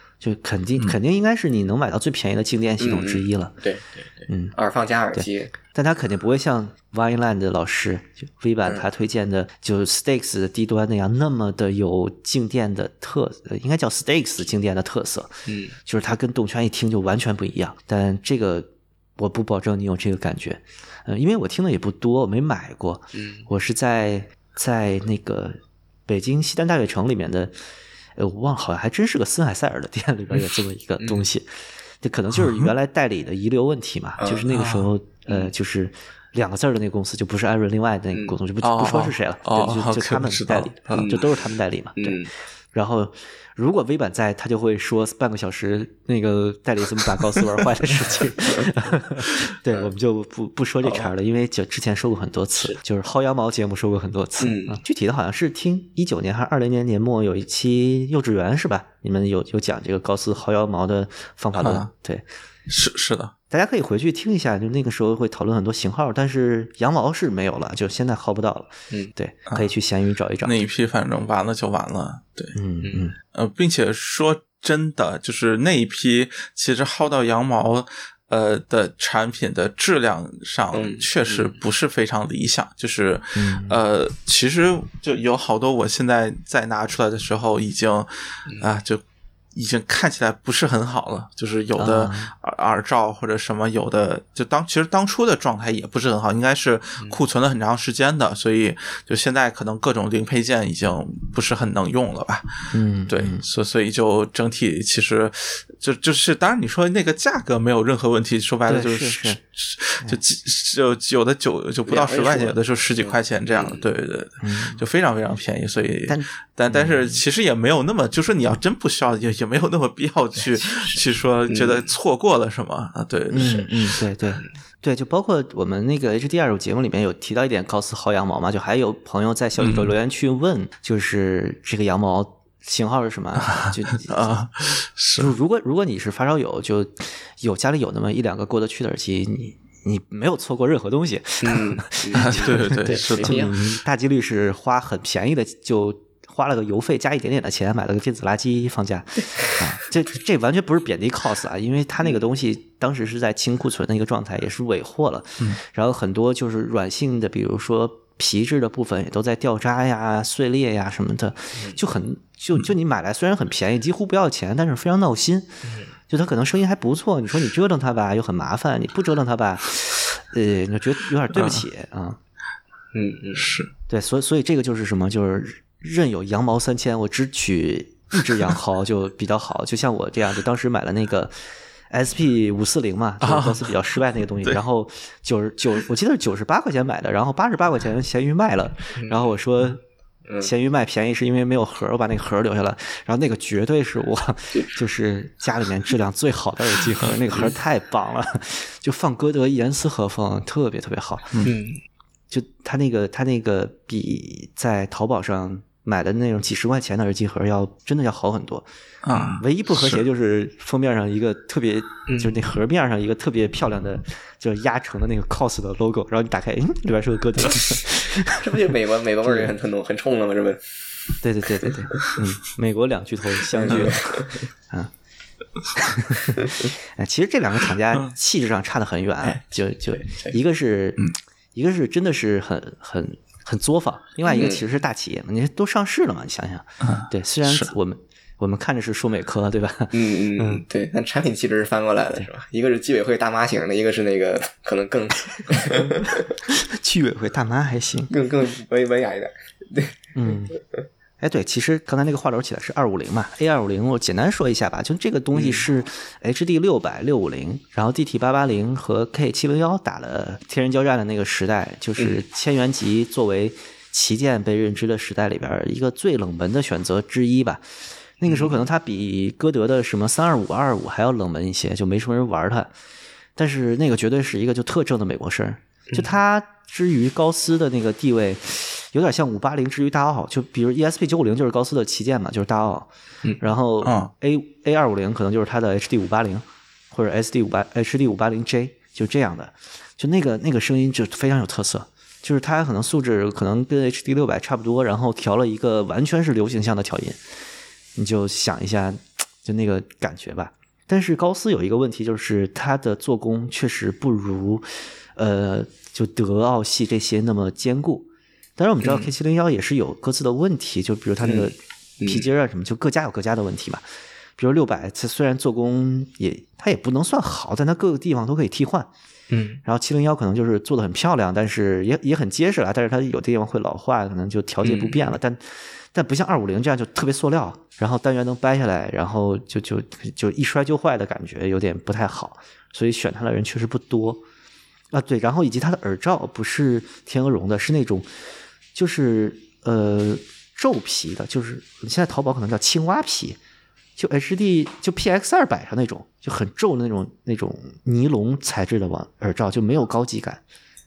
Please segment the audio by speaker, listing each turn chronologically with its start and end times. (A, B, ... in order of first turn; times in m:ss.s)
0:00.2-0:03.5 A
0:02.8-0:05.5 B
0:04.3-0:04.6 A
0:05.1-0:15.3 A
0:15.5-0:15.8 B
0:15.9-0:27.5 A
0:23.1-0:23.5 B
0:28.2-0:31.5 A
0:31.0-0:31.2 B
0:32.0-0:42.2 A
0:32.3-0:32.7 C
0:34.2-0:34.4 B
0:34.5-0:34.9 C
0:35.3-0:35.5 B
0:38.6-0:41.1 C
0:40.9-0:41.3 B
0:42.0-0:42.3 B
0:42.7-1:02.3 A
0:50.8-0:51.1 B
0:54.4-0:54.8 B
1:01.6-1:01.9 C
1:02.7-1:03.3 C
1:03.5-1:10.6 A
1:10.4-1:12.5 C
1:12.5-1:13.2 A
1:13.3-1:29.0 C
1:20.7-1:21.6 B
1:23.4-1:23.8 A
1:29.6-1:42.5 C
1:31.8-1:32.3 A
1:42.7-1:43.4 A
1:43.1-2:03.7 C
1:48.7-1:49.4 A
1:51.9-1:53.9 B
1:54.4-1:54.8 A
1:56.1-1:57.2 A
2:00.7-2:01.9 B
2:03.3-2:14.5 A
2:09.6-2:09.9 C
2:13.4-2:15.3 C
2:15.2-2:45.5 A
2:21.4-2:23.6 B
2:22.2-2:23.5 C
2:45.6-2:45.9 B
2:46.1-2:52.2 A
2:51.3-2:51.6 C
2:52.9-2:53.5 B
2:53.4-2:53.7 C
2:53.9-3:09.8 A
3:03.2-3:03.7 C
3:10.4-3:21.4 A
3:21.4-3:21.8 B
3:22.3-3:28.7 A
3:29.0-3:30.0 C
3:29.4-3:38.4 A
3:32.1-3:32.4 B
3:38.3-3:40.6 B
3:39.2-3:39.5 A
3:41.2-3:44.9 A
3:43.6-3:44.4 B
3:43.7-3:43.9 C
3:45.8-3:51.0 A
3:49.2-3:50.4 B
3:51.6-4:00.6 A
3:54.3-3:54.6 B
3:56.8-3:57.7 C
3:59.9-4:06.2 B
4:06.5-4:08.1 A
4:08.1-4:10.0 B
4:10.2-4:10.6 A
4:11.2-4:27.6 A
4:15.4-4:15.6 B
4:28.2-4:32.7 A
4:28.3-4:28.6 B
4:33.4-4:57.2 A
4:43.8-4:44.1 C
4:58.0-5:13.8 A
5:08.8-5:09.1 B
5:11.2-5:12.3 B
5:14.4-5:18.9 A
5:19.3-5:19.6 B
5:19.6-5:34.2 A
5:24.6-5:25.1 B
5:34.9-5:38.1 A
5:38.8-5:43.4 A
5:44.0-5:50.4 A